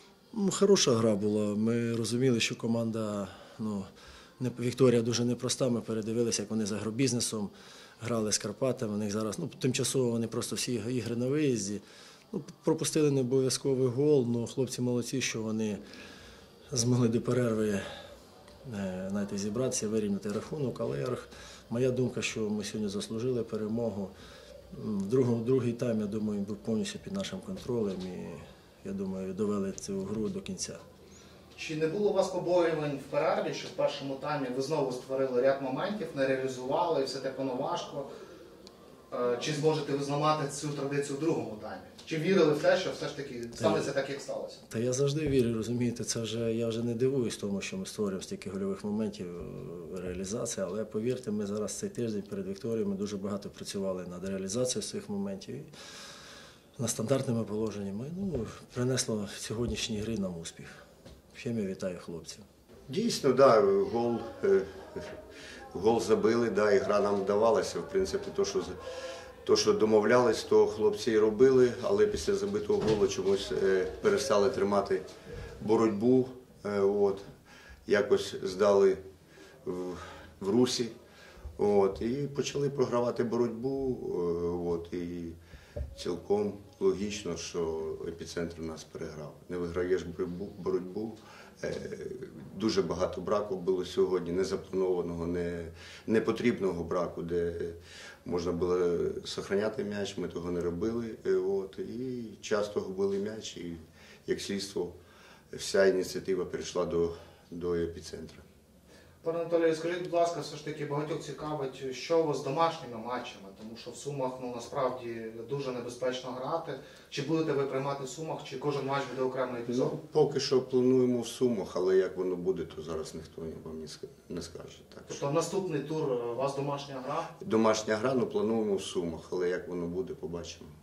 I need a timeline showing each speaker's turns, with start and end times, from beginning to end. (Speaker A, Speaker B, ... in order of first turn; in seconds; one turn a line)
Speaker A: 0.3-15.8
Speaker A: 16.7-17.9
Speaker A: 18.6-24.1
Speaker A: 24.7-30.8
Speaker B: 31.6-38.1
Speaker B: 39.1-44.6
Speaker A: 43.6-43.9
Speaker A: 44.7-55.7
Speaker A: 56.8-60.7
Speaker A: 61.3-62.5
Speaker C: 62.9-65.1
Speaker C: 65.7-68.8
Speaker C: 69.4-75.0
Speaker C: 75.6-77.2
Speaker C: 77.9-79.0
Speaker C: 79.7-80.9
Speaker C: 81.6-85.4
Speaker C: 86.0-105.0
Speaker C: 105.5-108.5
Speaker B: 109.2-119.9
Speaker C: 119.7-125.2
Speaker B: 125.1-127.3
Speaker C: 127.4-130.7